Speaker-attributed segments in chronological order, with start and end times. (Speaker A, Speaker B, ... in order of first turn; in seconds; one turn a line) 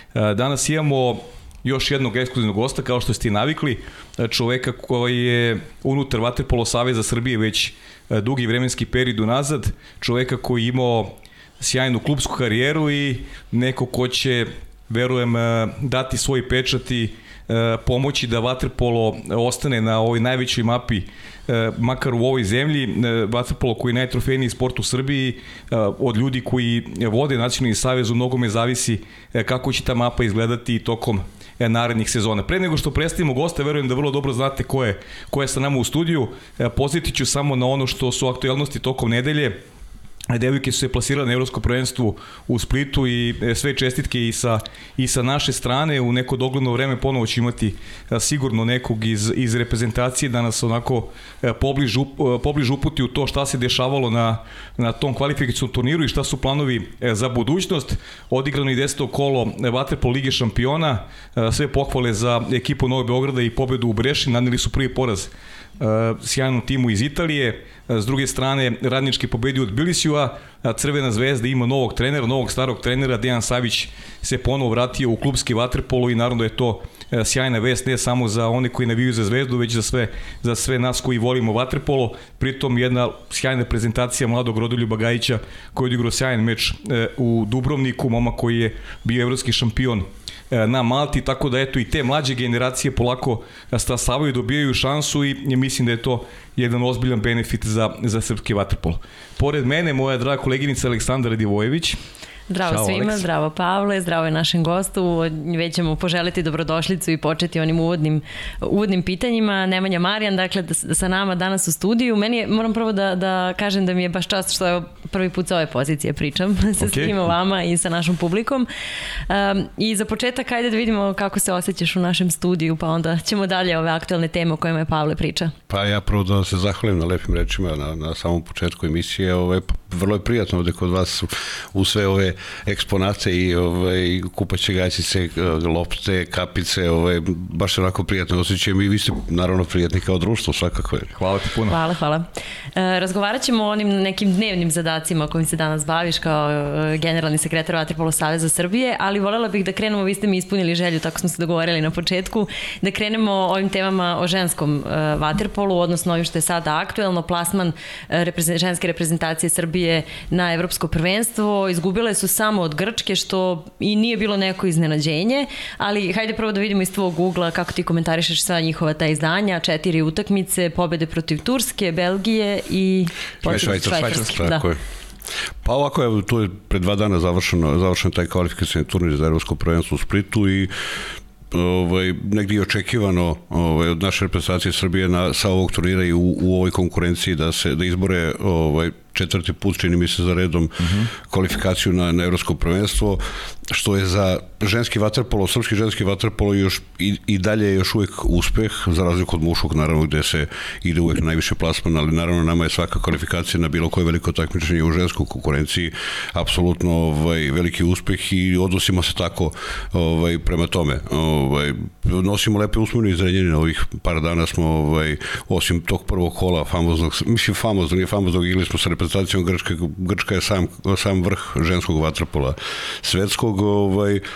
Speaker A: 0.1-39.6
Speaker A: 40.3-102.0
Speaker B: 102.5-118.7
Speaker A: 102.7-103.2
Speaker A: 116.8-117.2
Speaker B: 119.3-125.5
Speaker C: 125.7-141.1
Speaker A: 141.2-141.8
Speaker B: 141.7-174.6
Speaker C: 173.4-174.8
Speaker A: 173.5-174.4
Speaker C: 175.6-180.7
Speaker C: 181.5-224.2
Speaker A: 190.8-191.1